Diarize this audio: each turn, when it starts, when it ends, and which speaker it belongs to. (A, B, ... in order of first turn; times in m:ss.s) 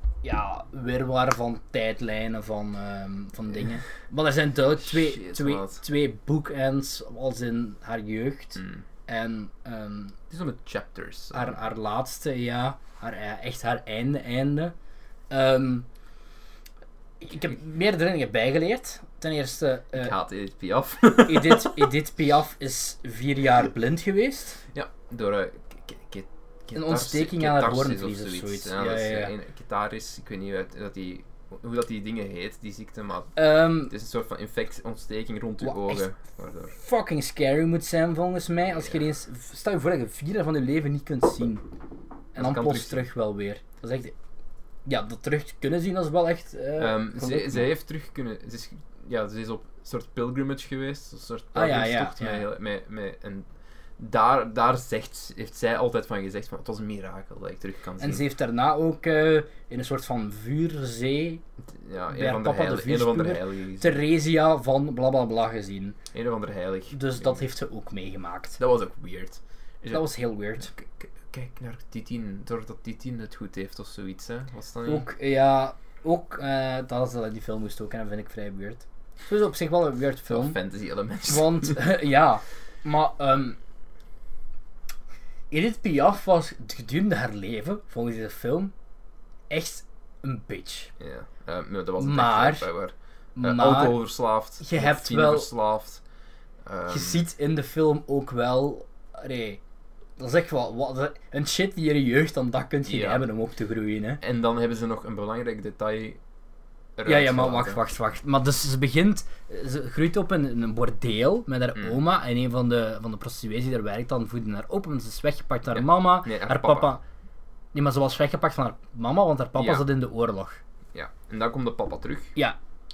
0:00.2-0:10.2 A
0:04.8-0:05.8 B
0:08.6-0:08.8 B
0:10.3-0:11.6 B
0:11.3-0:14.8 A
0:15.3-0:15.9 A
0:17.2-0:20.2 A
0:19.9-0:21.9 B
0:21.2-0:24.6 A
0:24.7-0:36.8 B
0:26.7-0:29.3 A
0:33.4-0:33.9 A
0:35.6-0:36.1 A
0:36.7-0:41.7 A
0:42.4-0:43.1 B
0:42.4-0:44.2 A
0:44.9-0:47.7 A
0:46.8-0:58.2 B
0:51.5-0:52.5 A
0:58.0-1:01.4 A
1:01.7-1:04.0 B
1:02.1-1:06.0 A
1:06.1-1:07.5 B
1:06.9-1:08.6 A
1:08.6-1:10.1 B
1:09.9-1:10.7 A
1:10.6-1:15.1 B
1:14.8-1:20.6 A
1:20.3-1:21.9 B
1:21.2-1:23.6 A
1:25.5-1:28.7 A
1:29.5-1:30.9 A
1:31.0-1:36.0 B
1:32.0-1:32.7 A
1:33.4-1:35.5 A
1:36.6-1:37.3 B
1:36.9-1:39.6 A
1:40.2-1:44.2 A
1:42.9-1:43.3 B
1:44.2-1:46.2 B
1:47.0-1:47.8 B
1:47.1-1:57.0 A
1:55.7-1:56.9 B
1:57.7-2:00.6 A
1:59.6-1:59.9 B
2:00.9-2:02.3 B